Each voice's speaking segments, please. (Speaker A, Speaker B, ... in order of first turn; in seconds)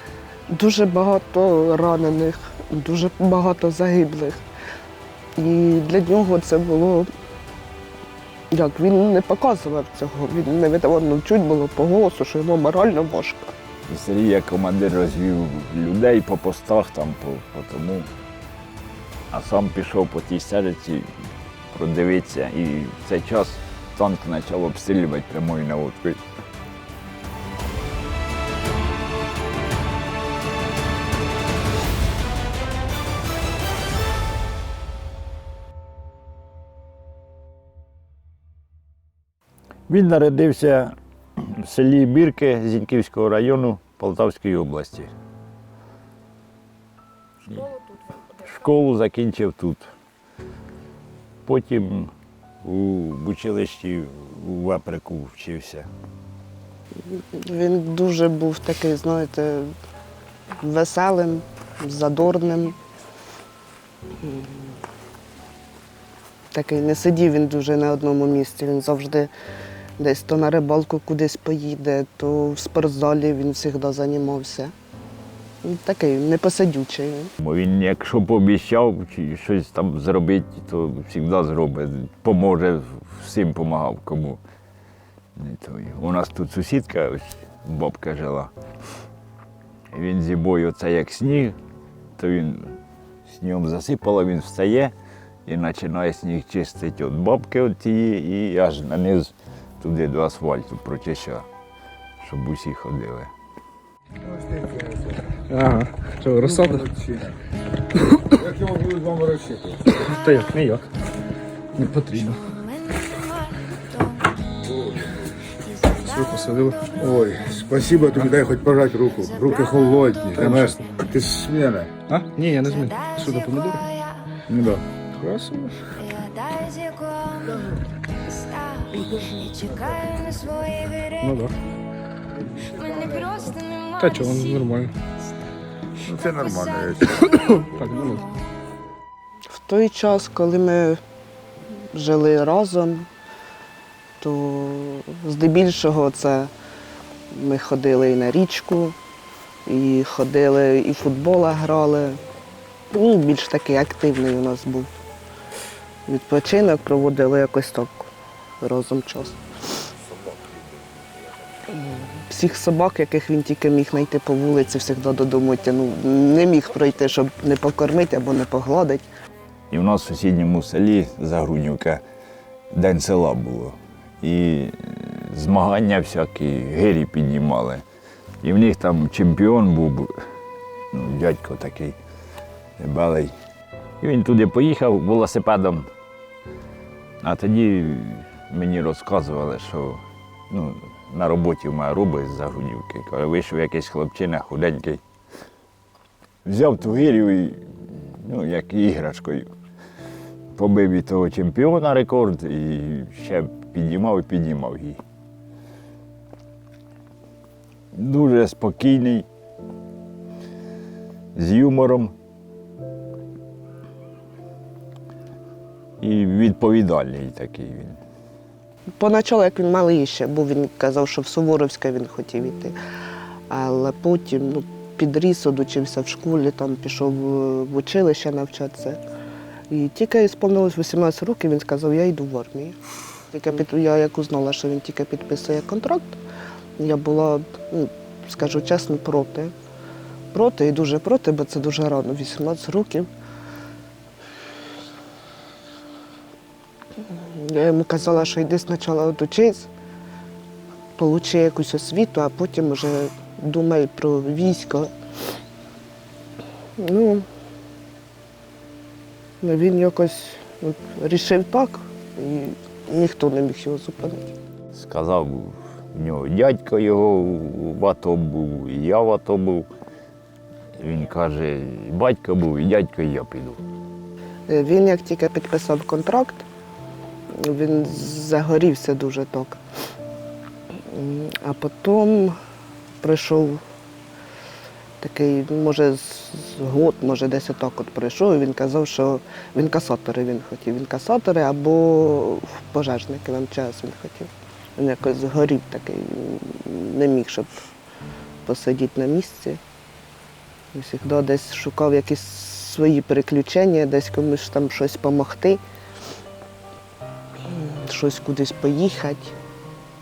Speaker A: 0.5-4.4, 5.4-7.1, 8.5-13.5, 57.1-59.7, 60.6-62.8, 64.2-64.6, 66.5-69.3, 70.0-74.7, 75.6-77.3, 139.5-141.0, 141.9-143.1, 144.2-146.5, 147.3-149.0, 149.7-152.2, 152.9-154.9, 156.1-159.4, 161.7-169.1, 219.0-222.8, 223.5-229.0, 229.7-232.8, 233.3-236.2, 236.8-239.5, 240.3-243.1, 247.1-249.7, 251.0-254.9, 256.8-257.2, 259.4-264.3, 274.5-276.4, 277.3-279.6, 280.7-282.4, 283.0-283.6, 285.0-297.7, 298.4-299.6, 300.7-305.6, 307.5-309.4
Speaker B: 13.9-18.1, 19.3-21.1, 21.7-26.2, 39.9-45.1, 48.4-49.9, 51.5-52.1, 52.6-55.9, 77.4-84.4, 85.4-88.5, 89.9-91.6, 92.2-94.9, 95.5-101.5, 102.2-103.3, 169.7-172.0, 172.7-177.8, 178.4-180.1, 180.9-182.0, 182.8-183.3, 184.0-185.9, 187.2-195.0, 196.4-199.5, 200.6-205.0, 207.9-209.3, 211.3-212.1, 216.0-218.0, 264.8-269.7, 270.8-273.6
Speaker C: 104.5-105.1, 106.4-107.3, 108.4-109.8, 117.0-121.9, 132.9-133.3, 136.0-137.6
Speaker D: 105.5-106.9, 110.0-110.8, 111.8-112.5, 115.9-116.9, 120.4-120.9, 122.1-123.9, 125.0-125.9, 131.1-131.5, 133.9-134.9, 137.2-138.3